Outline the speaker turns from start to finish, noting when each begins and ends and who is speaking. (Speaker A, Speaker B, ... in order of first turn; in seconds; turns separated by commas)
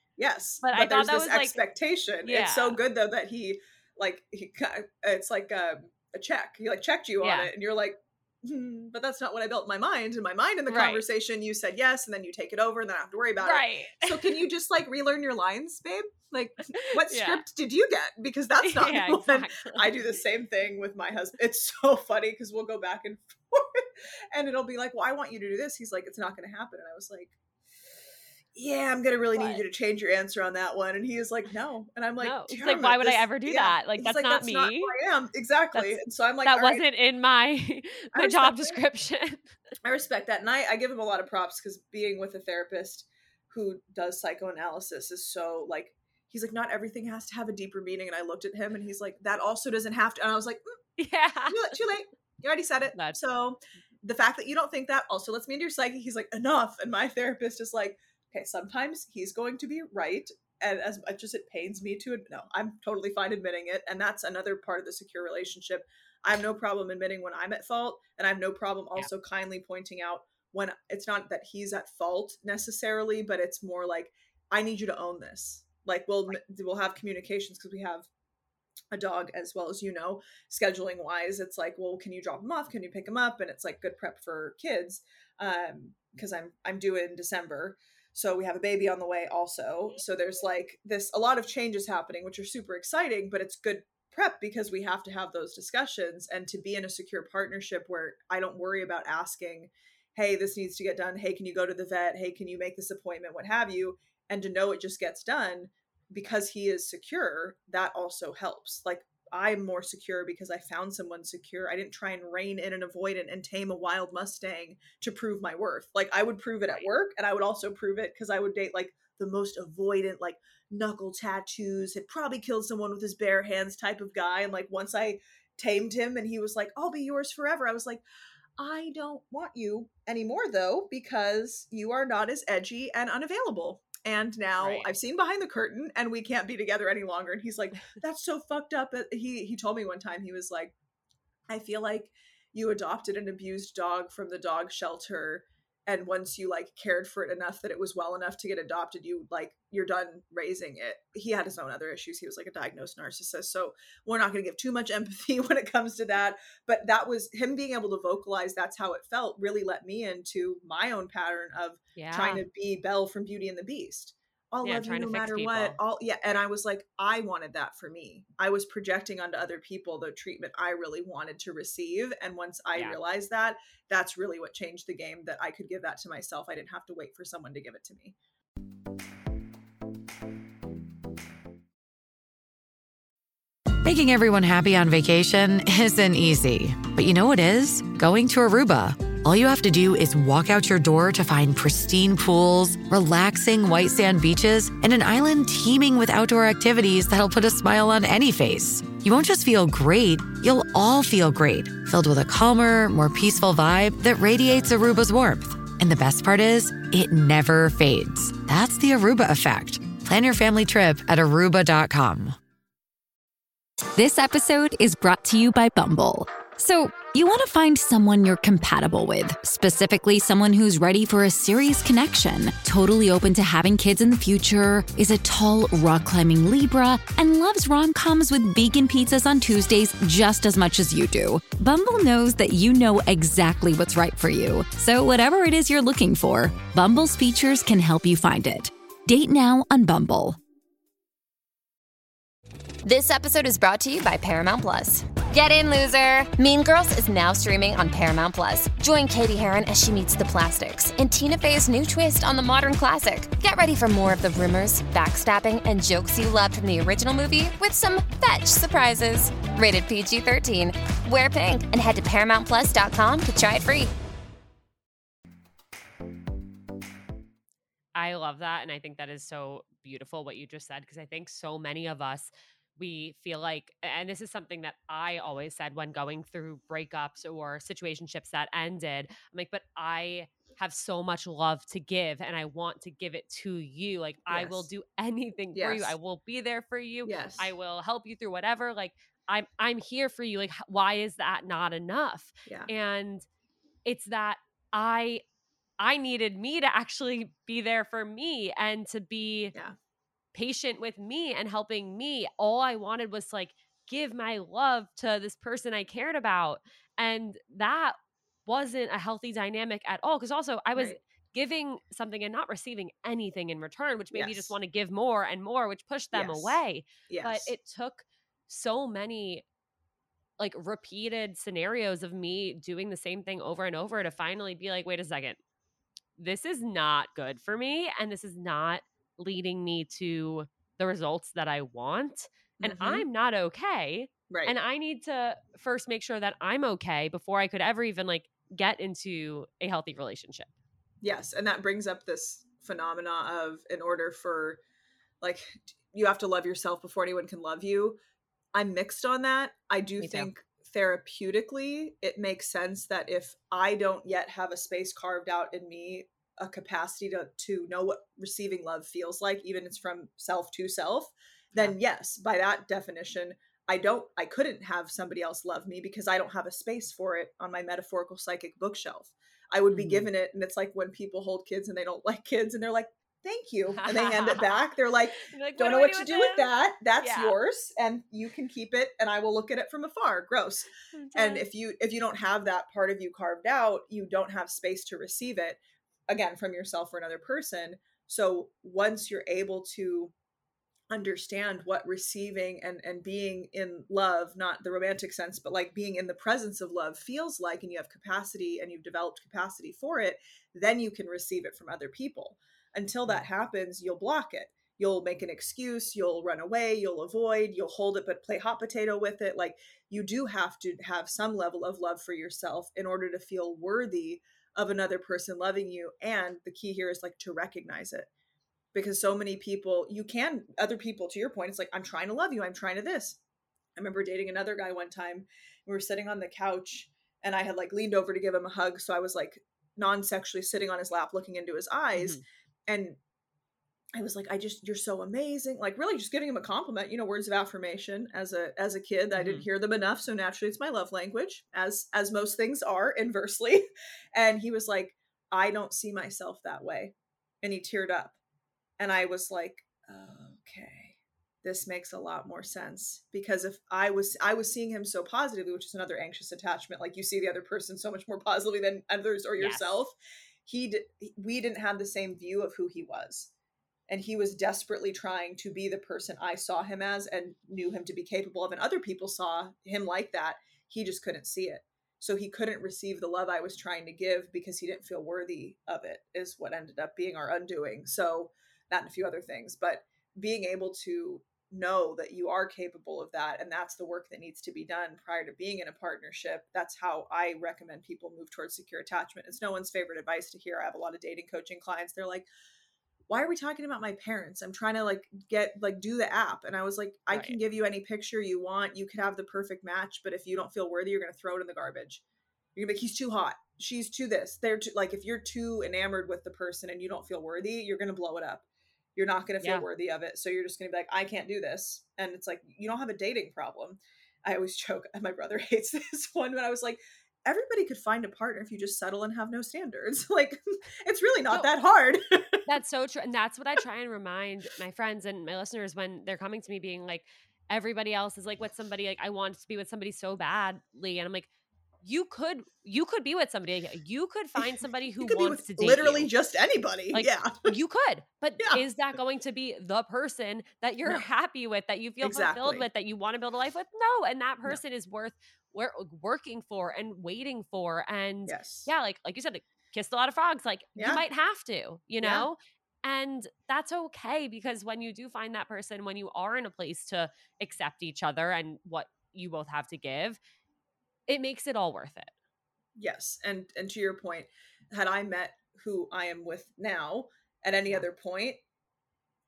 Speaker A: 0.2-27.4, Speaker B: 0.6-1.6, Speaker B: 2.2-2.8, Speaker B: 7.2-7.5, Speaker B: 10.7-11.0, Speaker B: 13.4-14.4, Speaker B: 16.7-17.4, Speaker B: 18.6-20.1, Speaker A: 28.6-36.8, Speaker B: 29.4-29.6, Speaker B: 32.2-34.9, Speaker B: 35.7-39.6, Speaker A: 38.1-38.8, Speaker A: 39.8-50.8, Speaker B: 51.0-51.8, Speaker A: 51.5-78.1, Speaker B: 53.0-53.2, Speaker A: 78.9-128.0, Speaker A: 128.6-140.8, Speaker B: 134.6-134.9, Speaker A: 141.5-178.2, Speaker B: 162.0-162.4, Speaker B: 164.6-165.8, Speaker C: 183.8-212.4, Speaker D: 213.9-240.4, Speaker E: 242.8-263.9, Speaker B: 268.0-293.3, Speaker A: 284.3-284.7, Speaker A: 285.5-286.0, Speaker A: 287.1-287.5, Speaker B: 293.9-295.2, Speaker B: 295.8-299.5, Speaker B: 300.3-319.4, Speaker A: 314.1-314.6, Speaker A: 316.1-317.5, Speaker B: 320.4-325.4, Speaker B: 326.2-340.5, Speaker A: 332.6-333.1, Speaker A: 334.3-334.6, Speaker A: 341.0-344.6, Speaker A: 345.2-348.0, Speaker A: 348.5-390.1, Speaker B: 350.0-350.3, Speaker B: 369.7-370.1, Speaker B: 373.7-377.4, Speaker B: 380.9-381.4, Speaker A: 390.9-418.1, Speaker A: 418.7-423.2, Speaker A: 423.8-433.0, Speaker B: 431.9-432.2, Speaker A: 433.9-448.2, Speaker B: 439.1-439.5, Speaker A: 448.8-463.3, Speaker B: 459.4-459.9, Speaker A: 463.9-492.3, Speaker A: 493.1-502.0, Speaker B: 497.1-497.4, Speaker A: 502.6-508.4, Speaker A: 509.0-522.5, Speaker B: 522.5-531.3, Speaker B: 531.8-536.1, Speaker A: 534.4-537.5, Speaker B: 536.9-560.2, Speaker A: 542.0-542.7, Speaker A: 548.3-548.7, Speaker A: 550.8-551.0, Speaker A: 552.0-552.3, Speaker B: 561.1-562.1, Speaker A: 562.8-568.4